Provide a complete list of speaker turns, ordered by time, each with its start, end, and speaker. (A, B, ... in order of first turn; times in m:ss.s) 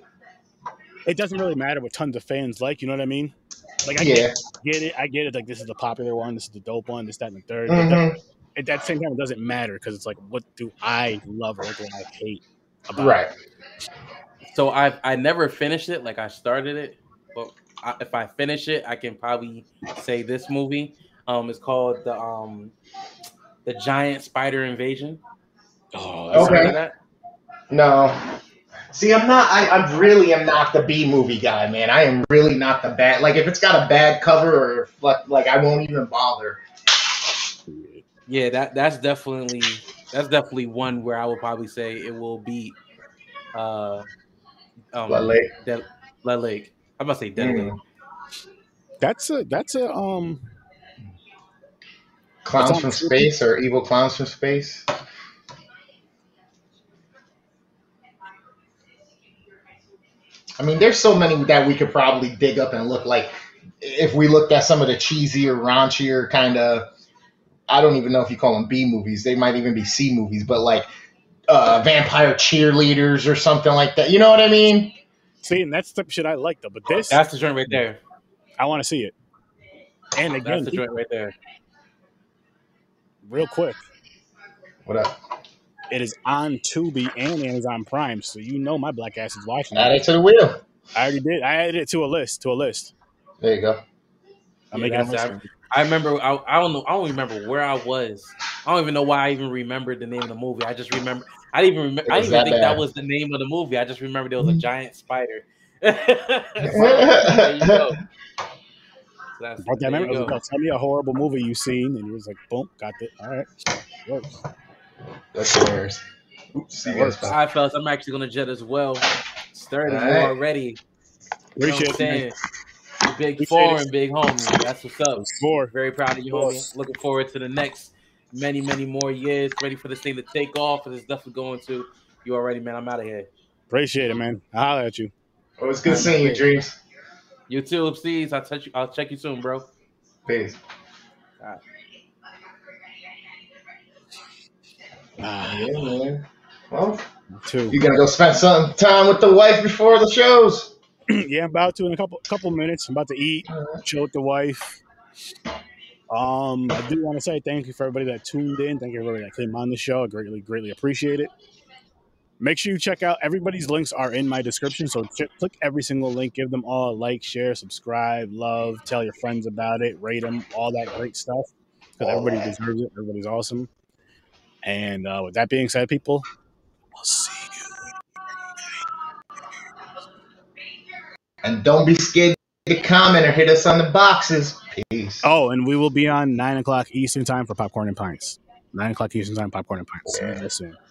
0:01.0-0:13.2 A
0:04.0-0:04.4 B
0:07.7-0:08.2 B
0:12.9-0:13.3 B
0:14.5-0:22.7 C
0:23.6-0:25.2 C
0:25.9-0:26.8 A
0:26.3-0:26.9 C
0:26.3-0:26.8 B
0:27.7-0:28.2 B
0:28.9-0:36.6 B
0:37.7-0:38.0 A
0:38.3-0:42.8 C
0:43.5-0:44.1 C
0:44.9-0:47.7 C
0:45.1-0:45.5 B
0:47.4-0:47.8 B
0:49.0-0:50.4 A
0:52.4-0:54.8 B
0:52.5-0:53.3 A
1:00.6-1:06.9 B
1:07.7-1:10.9 B
1:11.5-1:15.0 B
1:15.4-1:17.8 A
1:17.0-1:18.0 C
1:18.6-1:19.1 A
1:20.2-1:20.8 A
1:20.4-1:21.3 C
1:23.2-1:23.8 A
1:24.8-1:25.1 B
1:25.9-1:30.0 A
1:29.7-1:30.6 B
1:30.9-1:32.9 A
1:33.4-1:33.8 B
1:34.7-1:35.5 A
1:34.7-1:48.0 C
1:42.0-1:42.8 B
1:46.6-1:48.0 B
1:49.4-1:50.4 C
1:49.6-1:53.5 A
1:54.0-1:54.4 A
1:55.3-1:56.0 B
1:56.6-1:57.4 B
1:56.8-1:57.3 A
1:57.3-2:00.8 C
1:59.8-2:00.4 B
2:01.6-2:02.3 A
2:01.6-2:02.4 C
2:03.0-2:13.3 C
2:03.4-2:03.8 A
2:05.2-2:05.7 A
2:06.3-2:06.7 A
2:13.7-2:15.1 A
2:15.6-2:16.8 B
2:15.8-2:16.5 C
2:17.5-2:19.7 C
2:20.3-2:20.6 B
2:25.2-2:25.8 A
2:25.4-2:27.0 B
2:27.3-2:27.8 A
2:27.7-2:30.7 B
2:31.1-2:34.8 A
2:33.5-2:33.8 B
2:36.1-2:41.3 A
2:42.4-2:53.7 A
2:52.0-2:52.5 B
2:54.6-2:56.2 A
2:57.0-2:57.8 A
3:01.4-3:05.2 B
3:05.2-3:10.8 A
3:10.1-3:10.4 B